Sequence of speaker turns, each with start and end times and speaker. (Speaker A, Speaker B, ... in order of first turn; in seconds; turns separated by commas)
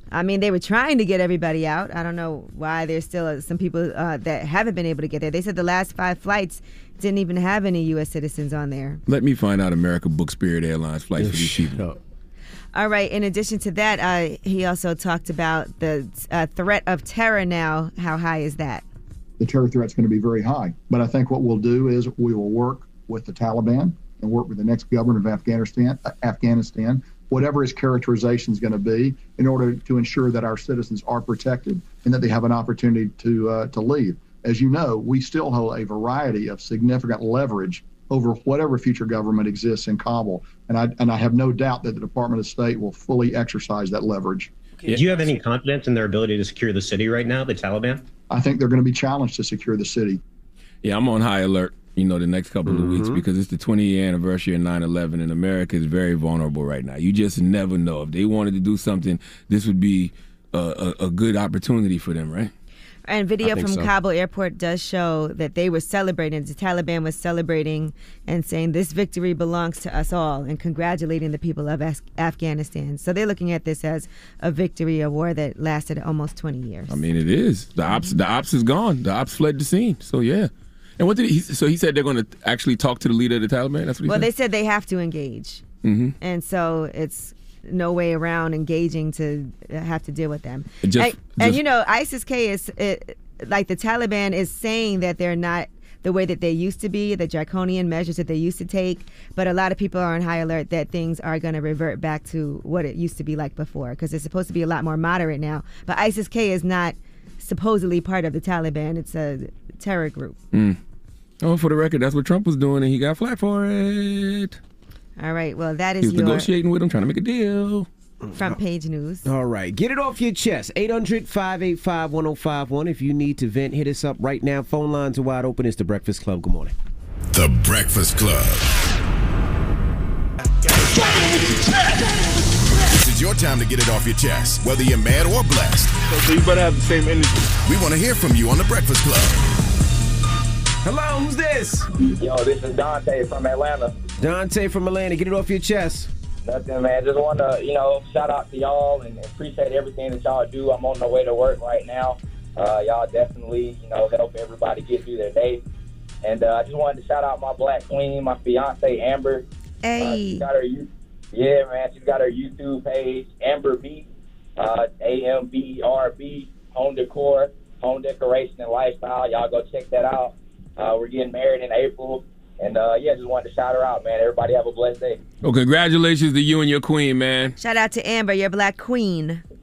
Speaker A: 0.1-9.0, Speaker B: 9.1-11.8, Speaker C: 11.2-12.0, Speaker A: 12.7-18.8, Speaker D: 19.4-44.5, Speaker E: 44.9-48.0, Speaker D: 48.3-50.2, Speaker B: 50.8-62.5, Speaker C: 52.6-53.2, Speaker A: 63.1-77.0, Speaker C: 63.4-63.9, Speaker B: 76.9-84.3, Speaker A: 77.8-78.1, Speaker A: 84.1-85.6, Speaker B: 85.8-86.1, Speaker A: 86.2-110.4, Speaker B: 90.8-91.6, Speaker B: 110.5-110.8, Speaker B: 111.4-114.6, Speaker A: 115.2-116.5, Speaker B: 116.0-117.9, Speaker C: 118.2-118.6, Speaker A: 118.3-119.2, Speaker C: 119.2-126.7, Speaker F: 127.3-128.7, Speaker G: 130.8-131.7, Speaker F: 132.9-135.9, Speaker G: 136.1-137.4, Speaker F: 137.6-139.4, Speaker C: 140.8-141.8, Speaker H: 142.2-144.0, Speaker C: 144.2-146.1, Speaker H: 146.4-155.6, Speaker H: 156.2-159.4, Speaker A: 159.8-160.4, Speaker H: 160.0-164.1, Speaker H: 164.6-175.2, Speaker B: 175.4-177.5, Speaker A: 177.6-179.4